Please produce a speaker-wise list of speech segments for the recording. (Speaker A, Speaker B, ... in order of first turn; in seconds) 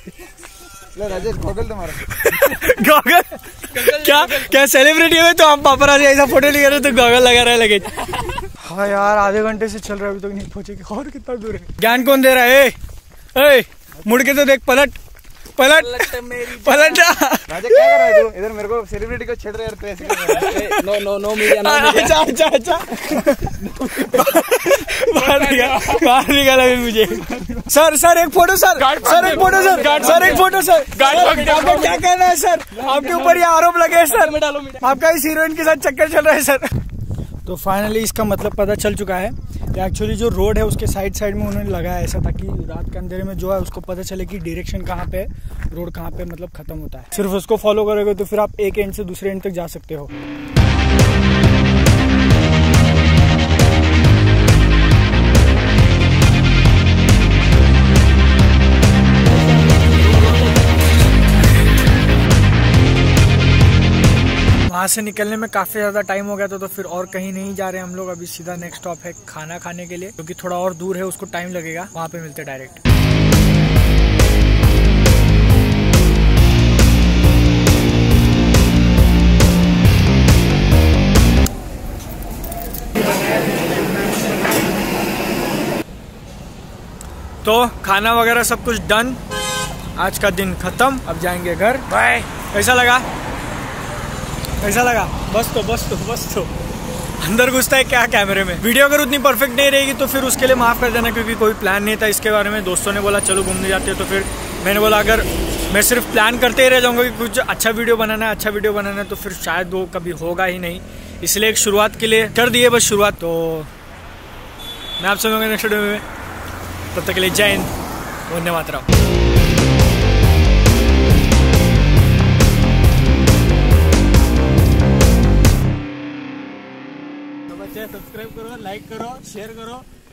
Speaker A: 0.9-2.1, 17.5-20.6
Speaker B: 2.0-12.8, 13.3-15.0, 15.6-18.1, 20.2-36.7, 37.5-50.1, 64.7-72.8, 87.4-89.2, 90.0-93.1, 94.6-96.5, 97.2-113.7, 115.0-116.0, 116.9-117.7, 118.3-118.9
Speaker C: 16.0-16.8, 20.5-22.2, 25.3-26.0, 28.8-32.0, 32.8-33.5, 34.1-34.8, 127.5-129.9